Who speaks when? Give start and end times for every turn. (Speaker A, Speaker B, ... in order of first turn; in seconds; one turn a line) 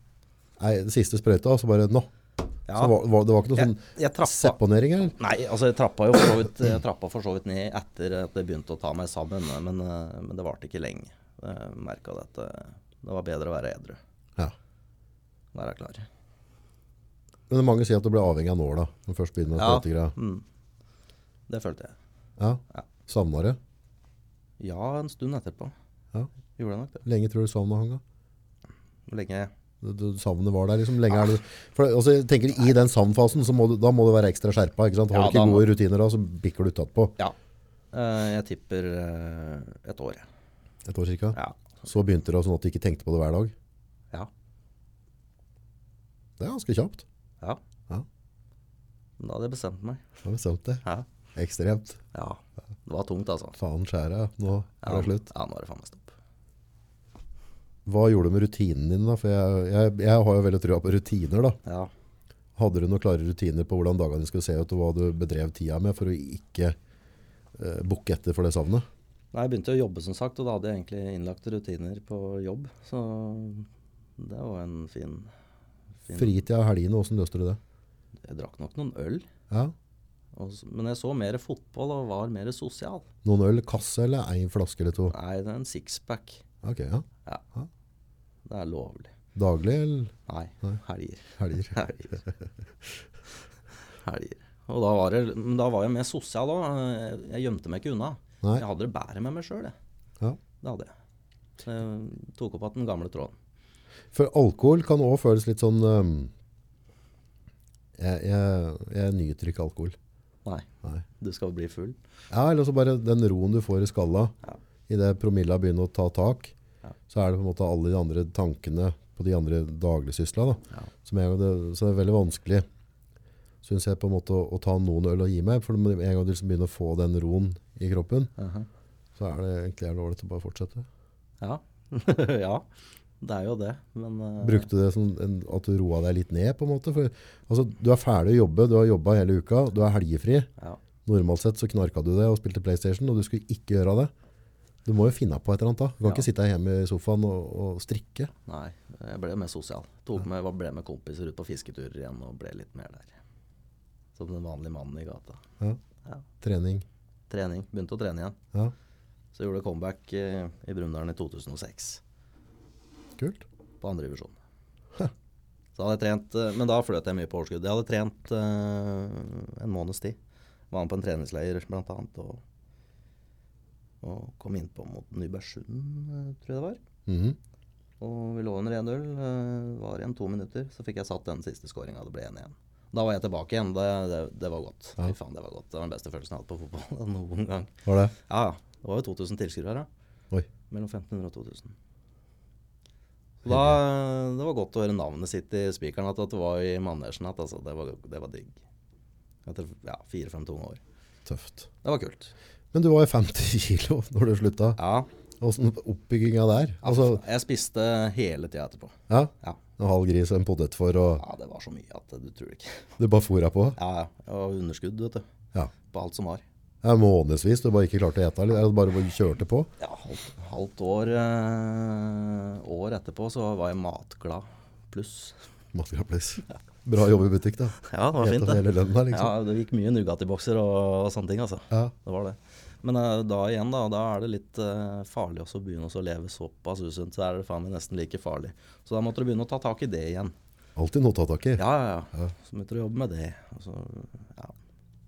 Speaker A: 0.6-2.1
Speaker B: 2.7-3.0
Speaker A: 2.7-5.2
Speaker B: 3.6-4.6
Speaker B: 5.2-14.0
Speaker B: 15.5-16.1
Speaker A: 17.5-20.1
Speaker B: 19.6-20.4
Speaker B: 21.5-21.9
Speaker A: 22.4-23.6
Speaker B: 24.6-25.7
Speaker B: 26.6-27.0
Speaker A: 27.0-28.0
Speaker B: 29.1-29.5
Speaker A: 29.8-37.2
Speaker B: 35.1-35.7
Speaker B: 37.9-40.3
Speaker A: 40.9-43.5
Speaker B: 41.3-41.6
Speaker A: 46.4-47.0
Speaker B: 49.2-50.0
Speaker A: 50.2-50.8
Speaker A: 51.4-52.0
Speaker B: 52.1-53.6
Speaker A: 53.6-55.3
Speaker B: 54.8-56.1
Speaker A: 57.9-61.6
Speaker B: 61.6-61.9
Speaker A: 62.6-66.8
Speaker A: 67.6-68.9
Speaker B: 69.3-75.3
Speaker B: 76.1-76.3
Speaker A: 76.1-77.6
Speaker B: 78.2-79.3
Speaker B: 80.3-83.1
Speaker A: 83.2-85.1
Speaker B: 85.1-86.4
Speaker A: 86.6-87.7
Speaker B: 88.4-89.1
Speaker A: 89.3-90.8
Speaker B: 90.3-92.2
Speaker A: 91.4-91.7
Speaker B: 94.0-99.8
Speaker B: 100.6-100.9
Speaker B: 101.6-103.3
Speaker A: 104.1-106.3
Speaker A: 108.0-110.0
Speaker B: 111.2-112.0
Speaker A: 112.3-114.3
Speaker A: 114.9-116.5
Speaker A: 117.1-122.7
Speaker A: 123.6-128.3
Speaker B: 128.4-128.7
Speaker A: 129.2-130.9
Speaker B: 131.4-132.7
Speaker B: 133.2-134.7
Speaker A: 134.4-140.5
Speaker A: 141.1-144.1
Speaker A: 144.8-148.3
Speaker B: 148.5-153.2
Speaker B: 154.2-155.4
Speaker A: 156.4-156.8
Speaker B: 157.3-158.4
Speaker B: 159.3-162.0
Speaker A: 163.2-163.4
Speaker B: 163.8-164.4
Speaker B: 165.8-170.2
Speaker B: 170.7-172.4
Speaker B: 174.0-176.8
Speaker A: 177.1-177.4
Speaker B: 178.0-189.9
Speaker A: 187.9-188.1
Speaker B: 190.7-191.8
Speaker B: 193.4-198.6
Speaker A: 193.4-193.8
Speaker B: 199.4-200.8
Speaker A: 201.3-201.7
Speaker B: 201.8-202.3
Speaker A: 202.7-204.8
Speaker B: 204.8-205.1
Speaker A: 205.4-207.2
Speaker B: 206.8-209.6
Speaker A: 209.1-211.2
Speaker B: 211.2-212.8
Speaker A: 213.0-213.8
Speaker B: 213.8-215.2
Speaker B: 215.9-216.4
Speaker A: 216.8-219.7
Speaker B: 219.8-225.4
Speaker A: 225.7-229.4
Speaker B: 227.8-240.3
Speaker A: 240.8-241.6
Speaker B: 241.6-244.6